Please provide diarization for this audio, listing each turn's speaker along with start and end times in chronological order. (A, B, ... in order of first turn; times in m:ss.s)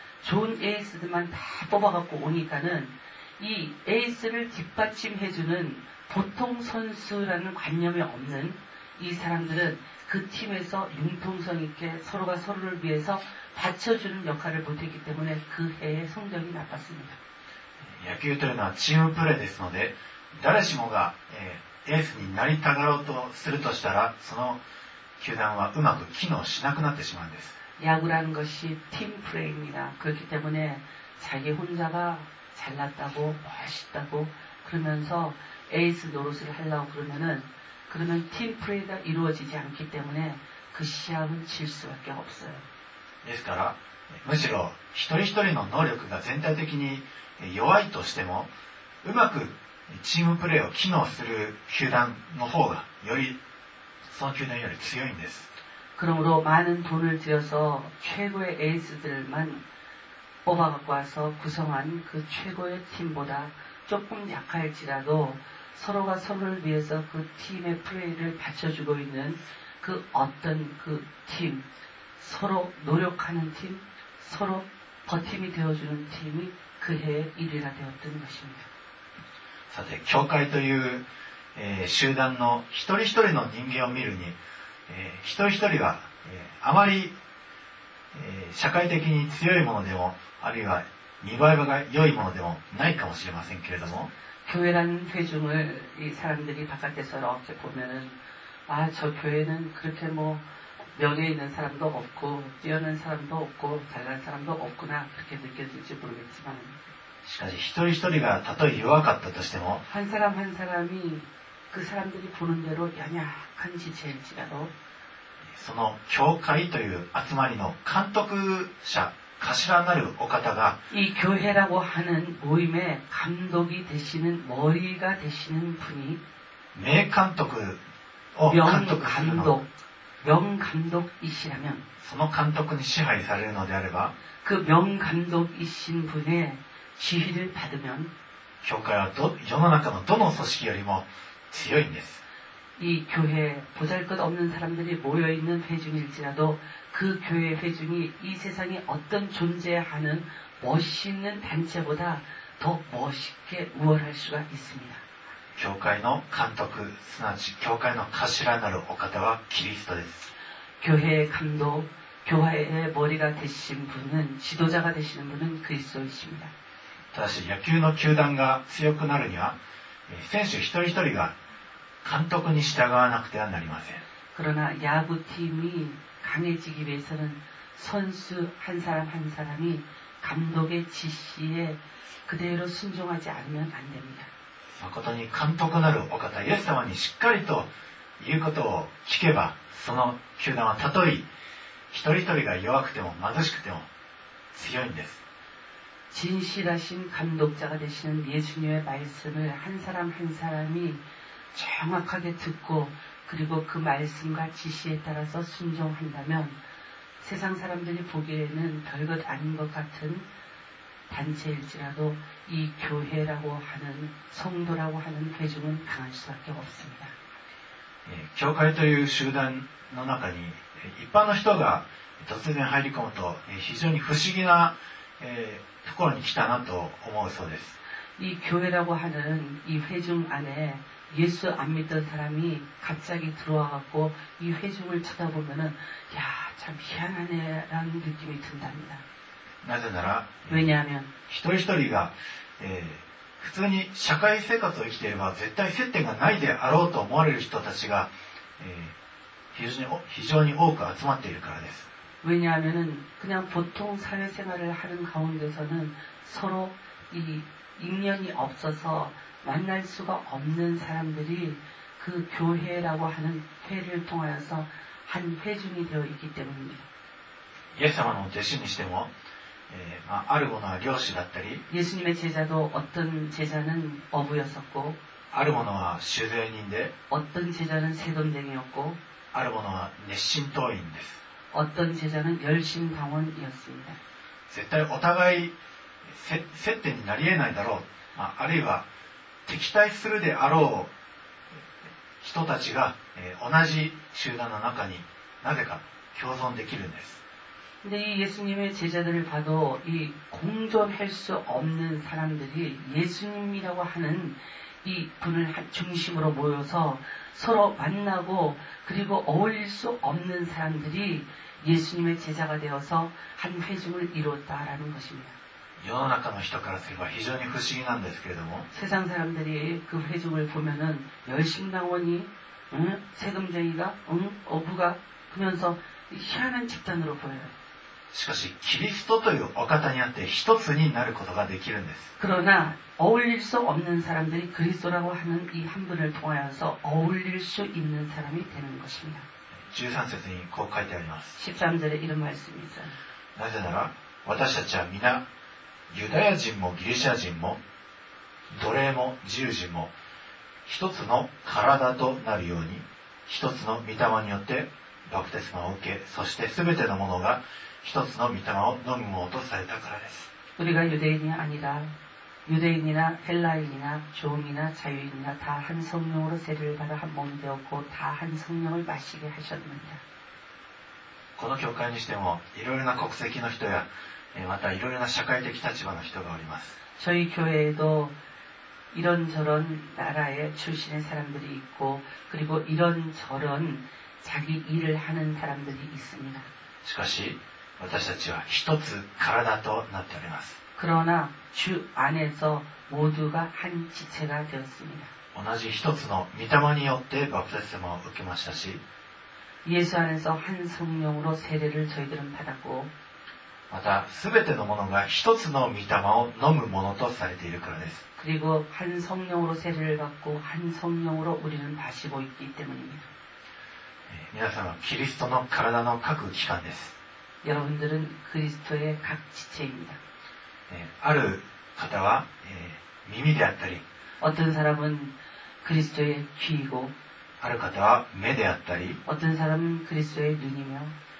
0:00.2-0:17.2 A
0:17.8-0:24.6 B
0:25.2-0:27.6 B
0:27.8-0:42.6 A
0:43.2-0:48.5 B
0:49.0-0:53.4 B
0:54.1-0:55.5 B
0:56.0-0:59.6 A
1:00.4-1:11.6 A
1:12.2-1:18.7 A
1:19.7-1:21.0 B
1:21.6-1:24.4 B
1:24.9-1:27.1 B
1:28.1-1:34.1 B
1:34.4-1:38.2 A
1:38.7-1:40.4 A
1:40.9-1:46.8 A
1:47.2-1:49.8 B
1:49.9-1:54.7 A
1:55.5-2:00.8 B
2:00.9-2:06.2 A
2:06.7-2:07.8 B
2:08.3-2:09.5 B
2:08.5-2:09.7 A
2:10.2-2:11.8 A
2:12.0-2:14.1 B
2:14.4-2:18.1 A
2:18.6-2:22.2 B
2:22.8-2:35.0 A
2:35.6-2:40.3 B
2:40.8-2:46.5 A
2:47.1-2:49.5 B
2:50.1-2:51.3 B
2:52.0-2:54.0 B
2:54.3-3:04.3 A
3:04.8-3:07.7 B
3:08.2-3:11.2 B
3:11.9-3:13.9 B
3:14.5-3:15.2 B
3:16.1-3:21.0 A
3:21.5-3:26.6 A
3:27.2-3:30.2 A
3:31.1-3:37.1 A
3:38.0-3:47.8 B
3:48.2-3:59.0 A
3:59.6-4:00.7 B
4:00.5-4:01.1 A
4:01.3-4:08.9 B
4:09.5-4:11.9 B
4:12.2-4:26.9 A
4:27.8-4:29.1 B
4:29.7-4:31.6 B
4:31.7-4:35.0 A
4:35.3-4:36.9 B
4:37.1-4:39.0 A
4:39.3-4:41.2 B
4:41.5-4:44.0 A
4:44.5-4:45.5 B
4:46.1-4:48.8 B
4:49.5-4:50.9 B
4:52.2-4:57.2 B
4:57.8-5:15.4 A
5:15.8-5:18.7 B
5:18.7-5:27.5 A
5:28.1-5:32.1 B
5:32.2-5:39.3 A
5:39.7-5:41.4 B
5:41.4-5:43.0 A
5:43.3-5:45.2 B
5:45.9-5:47.6 B
5:48.5-5:49.9 B
5:50.6-6:00.3 B
6:00.6-6:01.9 A
6:02.4-6:10.0 A
6:11.4-6:16.8 B
6:17.0-6:18.1 A
6:18.9-6:26.5 A
6:26.8-6:30.6 B
6:30.8-6:35.1 A
6:35.3-6:38.8 B
6:39.6-6:42.9 A
6:43.7-6:48.0 B
6:48.2-6:53.1 A
6:54.1-6:57.0 B
6:57.4-7:00.0 A
7:00.7-7:03.8 B
7:04.2-7:06.9 A
7:07.4-7:09.0 B
7:09.0-7:11.0 A